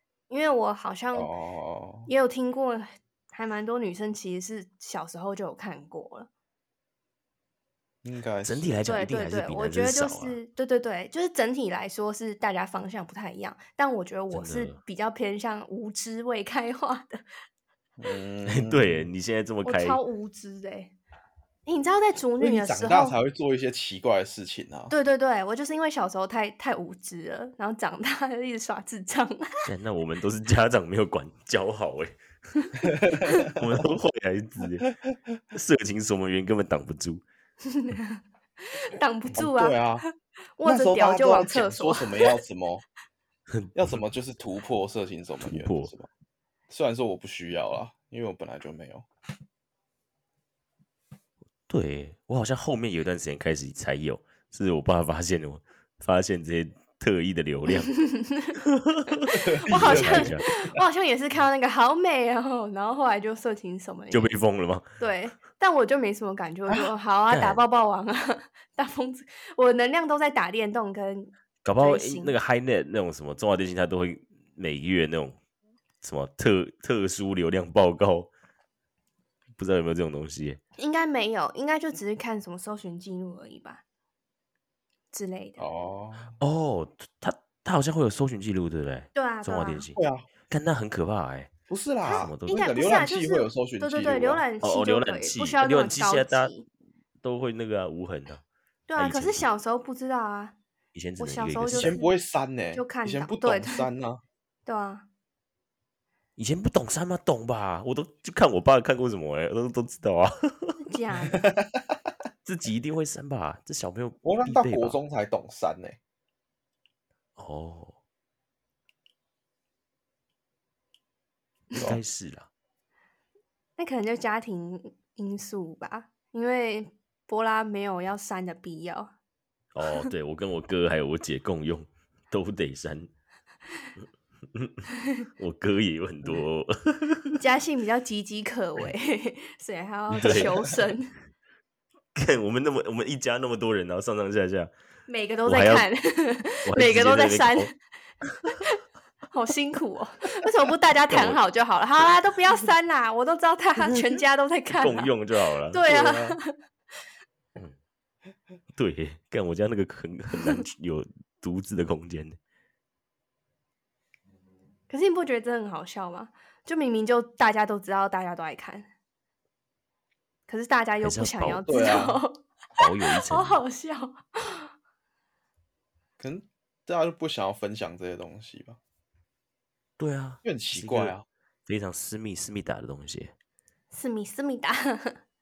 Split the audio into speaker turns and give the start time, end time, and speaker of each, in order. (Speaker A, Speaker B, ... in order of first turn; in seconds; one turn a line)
Speaker A: 0.3-1.3
Speaker B: 1.1-2.1
Speaker A: 2.1-6.3
Speaker B: 8.0-8.8
Speaker C: 8.4-10.4
Speaker A: 8.9-17.2
Speaker C: 14.3-14.8
Speaker B: 18.0-19.1
Speaker C: 18.4-20.0
Speaker A: 19.6-20.9
Speaker A: 21.6-23.2
Speaker B: 22.4-24.9
Speaker A: 24.9-29.6
Speaker C: 29.6-32.1
Speaker B: 32.9-33.9
Speaker C: 33.4-34.9
Speaker C: 35.5-37.2
Speaker A: 37.6-42.4
Speaker B: 39.4-40.0
Speaker B: 40.6-42.9
Speaker C: 43.5-44.0
Speaker B: 43.8-46.1
Speaker C: 45.4-45.9
Speaker B: 46.7-49.1
Speaker C: 51.7-57.9
Speaker A: 57.9-58.6
Speaker C: 58.7-60.5
Speaker A: 59.3-64.3
Speaker B: 59.4-60.8
Speaker C: 64.1-64.8
Speaker A: 65.0-72.4
Speaker C: 67.3-67.6
Speaker C: 71.6-75.4
Speaker C: 76.0-78.3
Speaker C: 79.6-80.6
Speaker A: 80.8-83.8
Speaker A: 85.1-85.6
Speaker B: 85.6-86.4
Speaker C: 86.4-91.5
Speaker A: 89.1-89.9
Speaker B: 90.0-90.3
Speaker B: 91.7-94.4
Speaker A: 92.0-96.7
Speaker C: 92.1-92.6
Speaker C: 94.6-96.5
Speaker C: 97.2-98.4
Speaker A: 98.9-100.6
Speaker C: 99.0-99.4
Speaker C: 100.9-101.9
Speaker A: 101.2-102.1
Speaker B: 101.7-104.2
Speaker A: 102.7-103.9
Speaker A: 104.7-105.1
Speaker C: 106.4-110.8
Speaker A: 110.8-111.5
Speaker C: 112.4-115.0
Speaker B: 114.2-116.0
Speaker C: 117.4-118.0
Speaker C: 121.8-122.5
Speaker A: 123.8-129.1
Speaker C: 129.8-133.1
Speaker C: 134.5-134.8
Speaker C: 135.4-137.4
Speaker A: 137.4-141.1
Speaker C: 140.1-140.5
Speaker B: 140.2-140.5
Speaker C: 142.1-144.7
Speaker A: 145.1-147.7
Speaker C: 145.4-145.9
Speaker C: 146.6-147.7
Speaker A: 148.4-148.8
Speaker A: 149.3-155.1
Speaker C: 151.1-151.4
Speaker C: 154.7-156.3
Speaker A: 155.7-156.5
Speaker B: 155.9-156.2
Speaker C: 158.8-162.4
Speaker A: 164.9-168.9
Speaker A: 170.5-174.7
Speaker C: 171.0-172.0
Speaker B: 171.7-172.2
Speaker C: 172.8-173.6
Speaker B: 176.2-178.8
Speaker C: 180.0-181.1
Speaker B: 180.4-181.2
Speaker C: 181.7-183.3
Speaker A: 183.9-185.2